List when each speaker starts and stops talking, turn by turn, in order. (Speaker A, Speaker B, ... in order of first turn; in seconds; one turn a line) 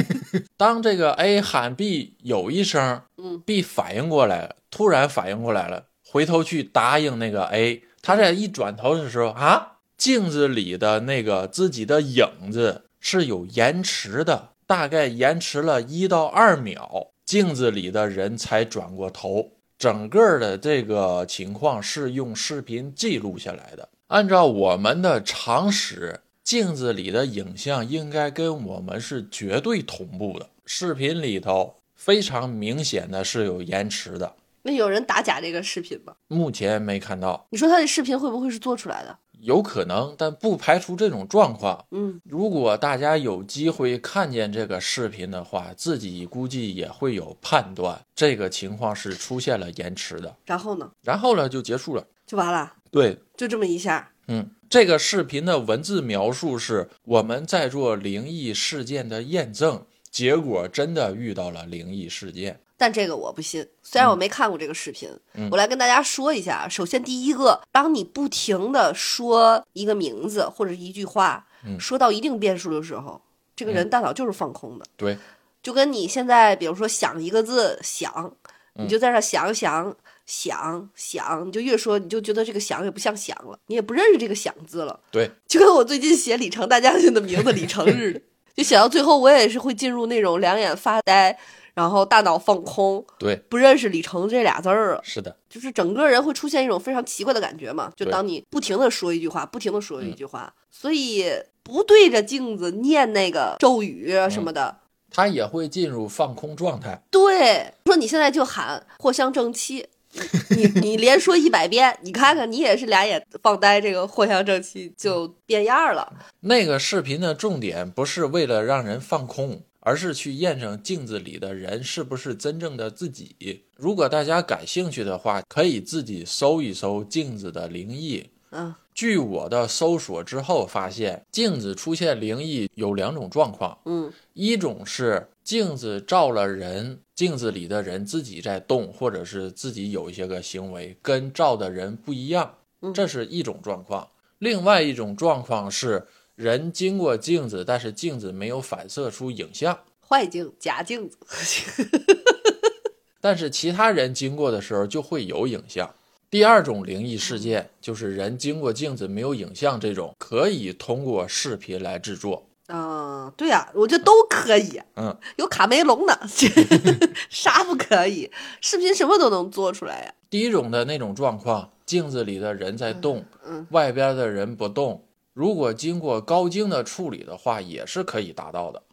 Speaker A: 0.6-34.3
Speaker B: 34.6-36.1
Speaker A: 36.3-37.4
Speaker B: 37.5-39.2
Speaker A: 39.4-50.4
Speaker B: 41.9-42.2
Speaker B: 50.5-50.9
Speaker A: 51.0-52.1
Speaker B: 52.3-52.7
Speaker A: 52.9-53.2
Speaker B: 53.4-54.1
Speaker A: 54.3-62.6
Speaker B: 62.8-74.9
Speaker B: 75.6-104.8
Speaker A: 95.0-95.3
Speaker A: 105.1-107.0
Speaker B: 107.1-116.2
Speaker A: 116.4-128.3
Speaker B: 128.5-128.8
Speaker A: 128.9-149.8
Speaker B: 133.8-134.1
Speaker B: 150.1-152.5
Speaker A: 153.2-162.4
Speaker B: 162.7-170.1
Speaker A: 170.3-178.8
Speaker B: 173.4-173.7